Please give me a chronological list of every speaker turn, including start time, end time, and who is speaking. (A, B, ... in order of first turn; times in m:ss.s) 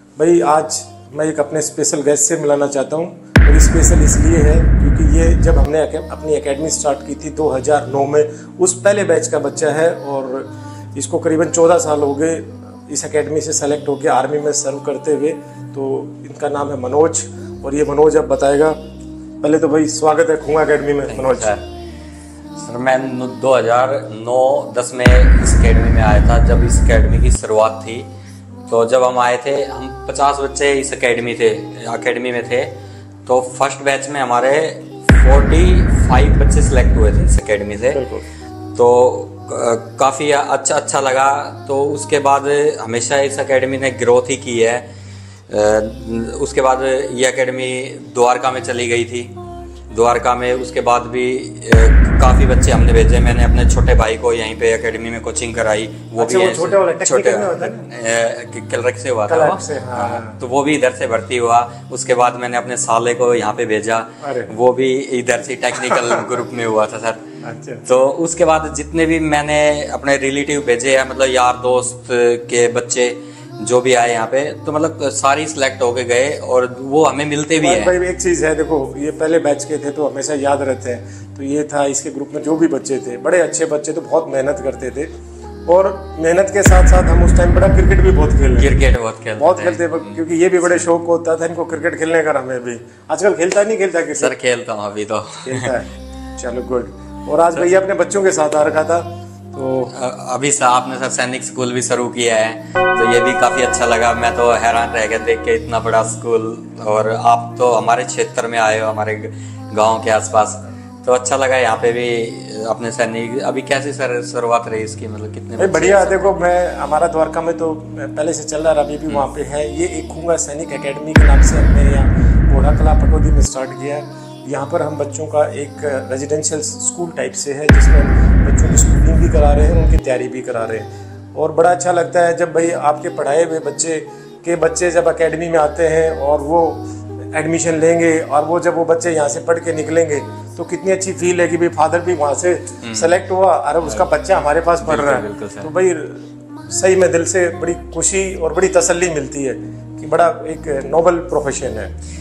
0:00.2-0:18.8 A
0:19.4-0:21.5 A
0:21.1-0:21.6 B
0:22.6-0:28.1 B
0:28.7-0:38.0 B
0:37.9-0:38.2 A
0:38.7-0:44.8 B
0:45.5-0:49.3 B
0:49.9-1:07.2 B
0:56.2-0:57.9 A
0:59.3-1:00.4 A
1:04.2-1:04.5 A
1:05.8-1:06.2 A
1:07.4-1:07.9 A
1:07.8-1:17.9 B
1:17.6-1:25.1 A
1:25.6-1:28.8 A
1:28.6-1:30.9 B
1:29.3-1:34.3 A
1:34.2-1:35.7 B
1:35.4-1:39.9 A
1:39.9-1:56.4 B
1:55.6-2:31.9 A
2:22.8-2:23.2 B
2:23.8-2:24.1 B
2:24.8-2:25.7 B